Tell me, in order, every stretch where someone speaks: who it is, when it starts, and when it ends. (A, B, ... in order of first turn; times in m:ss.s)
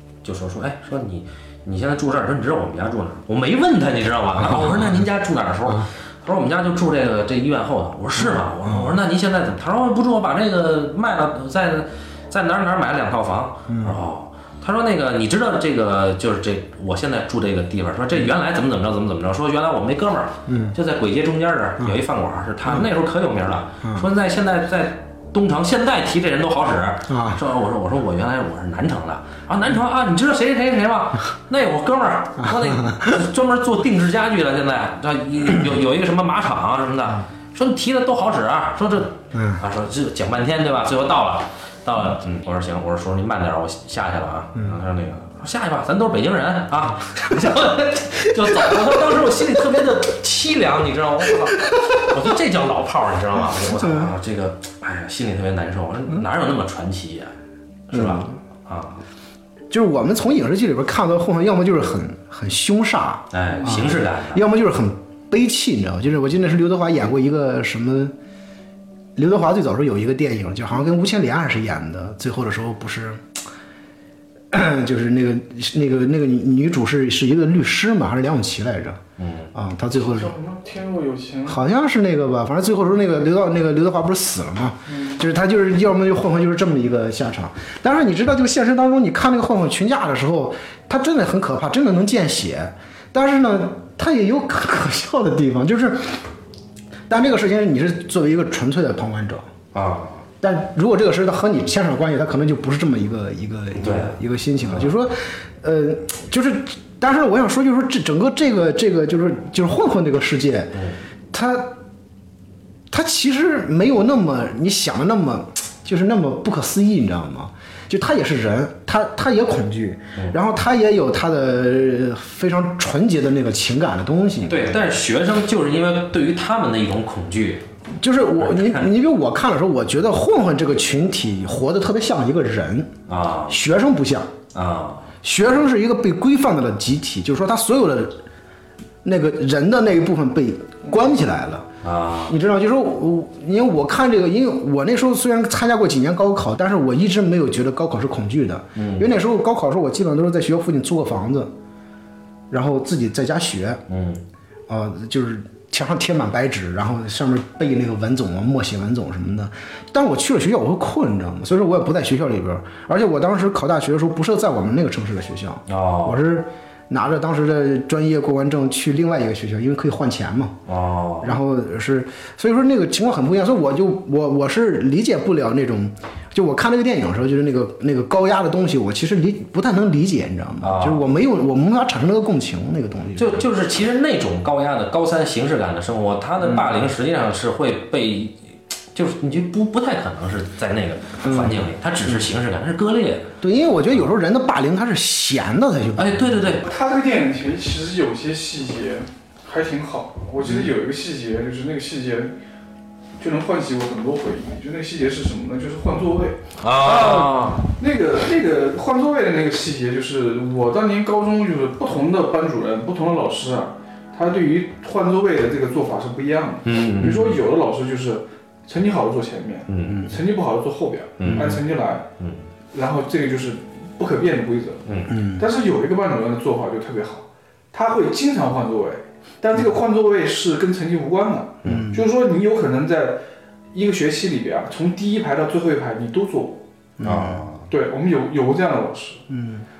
0:00.2-0:57.3 A
0:08.2-0:09.0 B
0:13.7-0:14.0 B
0:20.5-0:20.8 B
0:27.1-0:27.4 B
0:32.5-0:33.2 B
0:39.3-0:39.6 B
0:51.5-0:52.0 B
0:53.6-0:54.1 B
0:57.9-0:59.0 A
0:57.9-0:58.4 B
0:59.7-1:08.1 B
1:03.3-1:04.4 A
1:09.2-1:13.3 B
1:14.5-1:19.0 B
1:19.2-1:19.5 A
1:19.5-1:20.3 B
1:20.0-1:21.6 C
1:21.4-1:36.2 B
1:24.9-1:25.2 C
1:37.1-1:39.5 B
1:39.7-1:40.2 A
1:40.4-1:51.8 B
1:43.8-1:44.9 A
1:52.9-2:04.8 B
2:04.5-2:07.6 A
2:08.0-2:12.9 B
2:08.4-2:08.8 A
2:13.1-2:13.6 A
2:13.5-2:14.3 B
2:14.5-2:15.1 A
2:15.2-2:18.2 B
2:19.0-2:21.7 B
2:21.8-2:22.4 A
2:22.3-2:31.5 B
2:28.8-2:29.1 A
2:32.5-2:33.8 B
2:33.9-2:34.2 A
2:34.7-2:50.6 B
2:45.7-2:46.2 A
2:50.7-2:51.4 A
2:51.2-3:03.4 B
3:00.6-3:01.0 A
3:03.2-3:08.4 A
3:06.4-3:06.8 B
3:08.9-3:13.3 A
3:11.2-3:12.3 B
3:13.4-3:16.5 B
3:16.0-3:16.6 A
3:16.6-3:22.3 C
3:23.2-3:42.0 C
3:26.6-3:27.6 A
3:36.6-3:37.3 A
3:39.7-3:40.0 A
3:39.9-3:40.1 B
3:41.2-3:41.6 A
3:41.2-3:41.6 B
3:42.7-3:44.8 C
3:44.9-3:45.1 A
3:45.1-3:45.4 B
3:45.4-3:56.6 C
3:51.6-3:51.9 A
3:51.6-3:52.0 B
3:57.0-3:57.5 B
3:57.0-3:57.6 A
3:57.7-3:59.2 C
3:59.3-3:59.6 B